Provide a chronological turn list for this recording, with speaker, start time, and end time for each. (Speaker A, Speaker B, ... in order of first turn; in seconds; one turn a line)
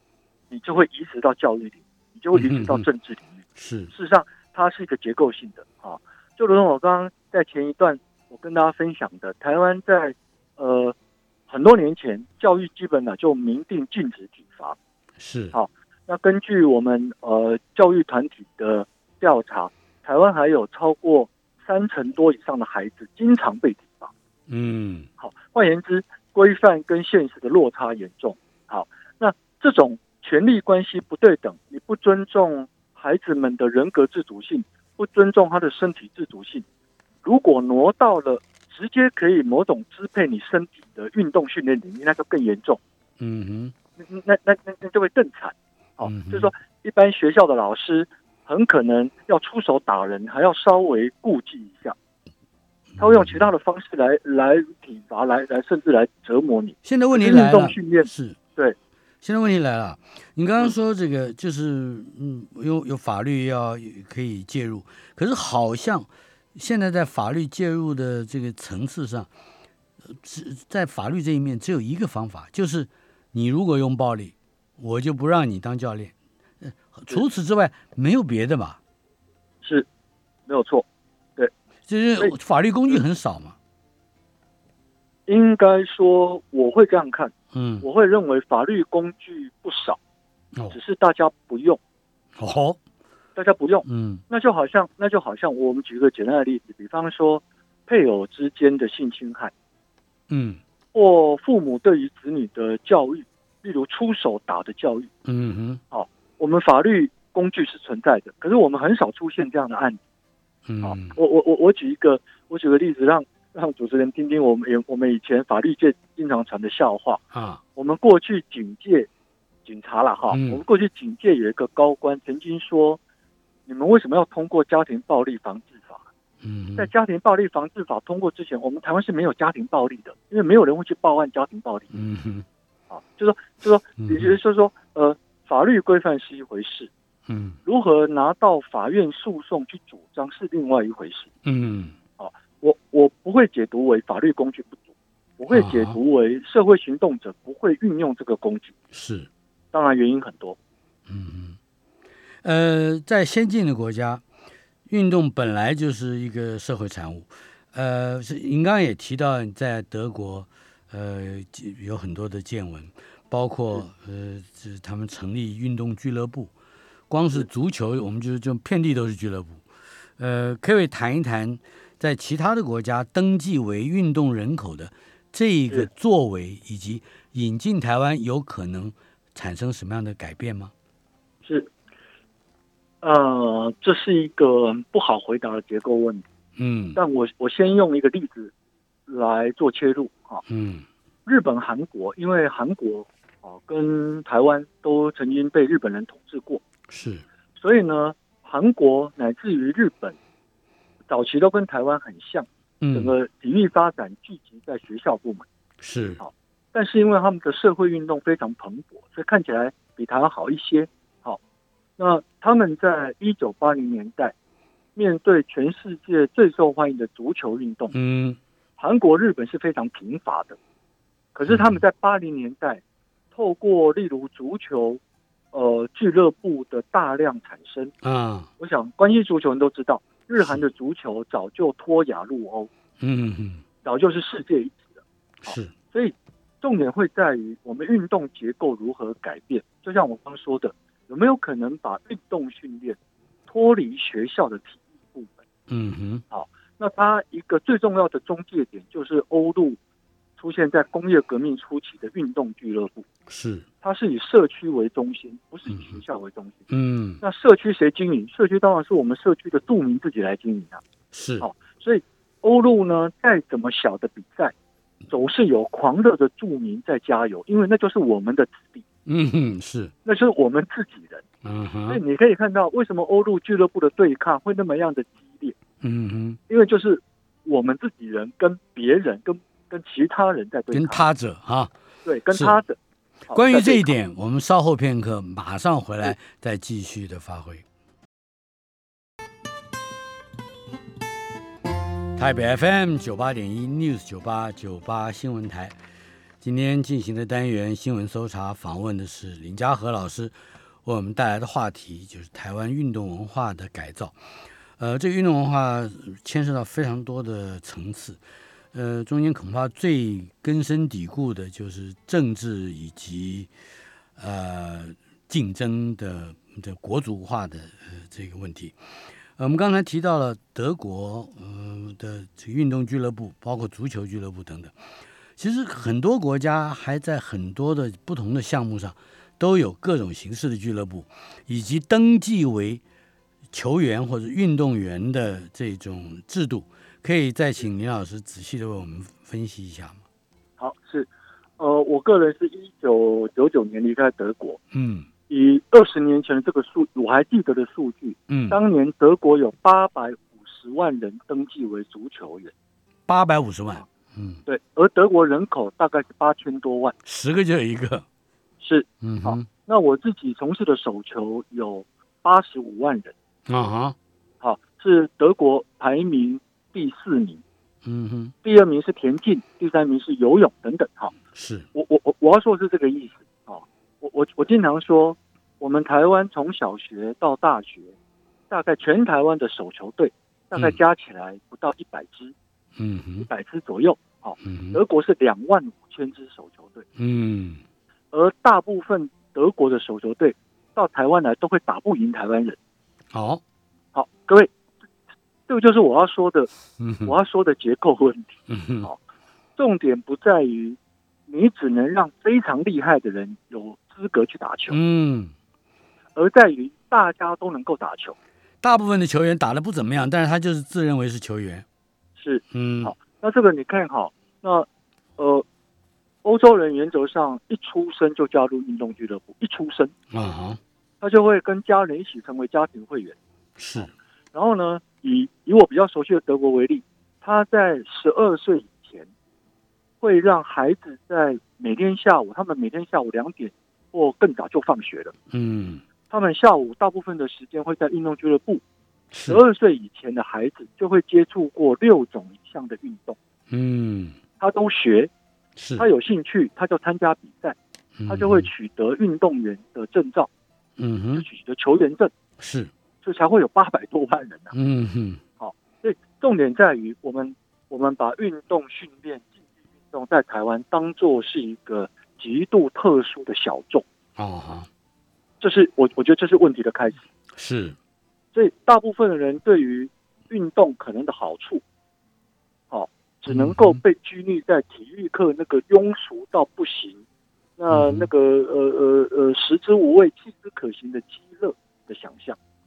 Speaker A: 0.5-10.9
Speaker B: 2.3-2.9
Speaker B: 3.5-3.9
Speaker A: 11.5-14.8
Speaker B: 15.2-15.5
Speaker A: 15.5-24.1
Speaker B: 24.5-25.1
Speaker A: 25.2-36.6
Speaker A: 37.2-42.8
Speaker B: 43.2-43.7
Speaker A: 44.0-52.0
Speaker B: 46.0-46.5
Speaker B: 52.9-53.5
Speaker A: 53.0-58.8
Speaker B: 56.8-58.4
Speaker B: 59.2-69.3
Speaker B: 70.1-78.8
Speaker A: 79.6-79.9
Speaker A: 80.5-80.8
Speaker B: 81.9-83.5
Speaker A: 85.3-90.0
Speaker B: 87.5-87.8
Speaker A: 90.7-91.8
Speaker B: 92.4-92.8
Speaker A: 93.3-99.5
Speaker B: 93.8-94.2
Speaker B: 100.3-100.6
Speaker A: 100.9-105.1
Speaker B: 105.2-105.8
Speaker A: 105.9-110.0
Speaker B: 110.7-111.1
Speaker A: 110.8-117.2
Speaker B: 117.3-117.6
Speaker A: 117.7-119.1
Speaker A: 119.7-123.0
Speaker B: 120.3-120.6
Speaker A: 123.7-126.1
Speaker B: 126.4-126.9
Speaker A: 126.8-131.9
Speaker B: 131.9-132.4
Speaker A: 132.9-136.9
Speaker B: 134.0-134.3
Speaker B: 137.3-137.6
Speaker A: 137.6-141.3
Speaker B: 141.4-141.9
Speaker A: 142.2-144.8
Speaker A: 145.4-148.7
Speaker B: 145.5-145.9
Speaker B: 148.9-149.3
Speaker A: 149.7-150.6
Speaker B: 151.1-151.6
Speaker B: 152.4-154.2
Speaker B: 154.9-166.5
Speaker B: 167.1-169.6
Speaker B: 170.2-180.7
Speaker A: 181.4-181.7
Speaker A: 183.0-186.2
Speaker B: 186.6-187.0
Speaker A: 186.9-188.5
Speaker A: 189.1-190.4
Speaker B: 190.5-190.8
Speaker A: 191.2-196.6
Speaker B: 196.9-197.2
Speaker A: 197.6-200.2
Speaker A: 201.1-205.5
Speaker B: 202.8-203.1
Speaker B: 205.8-206.2
Speaker A: 206.2-211.4
Speaker A: 212.0-214.3
Speaker A: 214.9-217.9
Speaker B: 217.9-218.4
Speaker A: 218.8-220.6
Speaker A: 221.3-225.0
Speaker B: 221.5-221.8
Speaker A: 225.5-227.9
Speaker B: 228.0-228.5
Speaker A: 228.6-232.7
Speaker B: 233.0-233.6
Speaker A: 233.8-243.0
Speaker B: 235.4-235.7
Speaker A: 243.5-245.4
Speaker B: 245.7-246.2
Speaker A: 246.3-249.8
Speaker A: 250.4-253.1
Speaker B: 253.3-253.7
Speaker A: 253.8-256.6
Speaker B: 255.7-256.0
Speaker B: 256.7-257.2
Speaker A: 257.2-260.8
Speaker B: 261.1-261.5
Speaker A: 261.4-264.5
Speaker A: 265.1-268.8
Speaker B: 269.1-269.9
Speaker A: 270.0-271.2
Speaker B: 271.4-272.0
Speaker A: 271.9-275.6
Speaker B: 275.8-276.4
Speaker A: 276.5-281.0
Speaker B: 280.7-281.7
Speaker A: 282.0-282.8
Speaker B: 282.3-282.6
Speaker A: 283.3-283.9
Speaker B: 283.3-287.6
Speaker B: 292.1-295.7
Speaker B: 296.4-304.1
Speaker B: 304.8-308.2
Speaker B: 308.7-313.5
Speaker B: 314.2-318.8
Speaker B: 319.4-324.7
Speaker B: 325.4-332.8
Speaker B: 333.5-340.0
Speaker A: 340.6-344.6
Speaker B: 344.7-345.1
Speaker A: 345.3-352.5
Speaker B: 348.3-348.6
Speaker B: 353.1-354.4
Speaker A: 354.4-356.9
Speaker B: 357.1-358.0
Speaker A: 358.6-363.1
Speaker B: 359.0-359.4
Speaker B: 363.5-363.9
Speaker A: 364.4-367.4
Speaker B: 367.8-368.3
Speaker A: 368.4-371.1
Speaker B: 371.3-371.7
Speaker A: 371.7-377.9
Speaker A: 378.5-382.3
Speaker B: 382.8-383.3
Speaker A: 383.2-386.9
Speaker B: 384.4-384.8
Speaker B: 387.0-387.6
Speaker A: 388.1-392.6
Speaker B: 393.1-393.4
Speaker A: 393.9-394.5
Speaker A: 395.5-396.5
Speaker B: 396.8-397.1
Speaker A: 397.0-399.0
Speaker B: 398.5-398.9
Speaker A: 399.6-404.8
Speaker B: 404.7-405.3
Speaker A: 406.1-408.1
Speaker B: 408.6-411.6
Speaker A: 412.2-414.7
Speaker B: 412.5-412.9
Speaker A: 415.2-415.4
Speaker A: 416.2-419.9
Speaker B: 420.1-420.6
Speaker A: 421.0-423.2
Speaker B: 423.6-423.9
Speaker A: 423.8-429.1
Speaker A: 430.0-435.1
Speaker B: 435.3-435.8
Speaker A: 436.1-438.6
Speaker B: 439.1-439.4
Speaker A: 439.2-443.2
Speaker B: 443.5-444.2
Speaker A: 444.4-445.1
Speaker B: 445.6-445.8
Speaker A: 445.8-450.3
Speaker B: 448.0-448.5
Speaker B: 450.8-451.2
Speaker A: 451.1-452.1
Speaker B: 452.4-452.7
Speaker A: 453.0-454.5
Speaker B: 454.5-455.2
Speaker A: 455.4-459.3
Speaker A: 459.9-463.8
Speaker B: 464.1-464.7
Speaker A: 465.4-467.1
Speaker B: 467.3-467.8
Speaker A: 468.3-471.6
Speaker A: 472.7-477.0
Speaker B: 473.3-473.8
Speaker A: 477.6-482.4
Speaker B: 477.7-478.1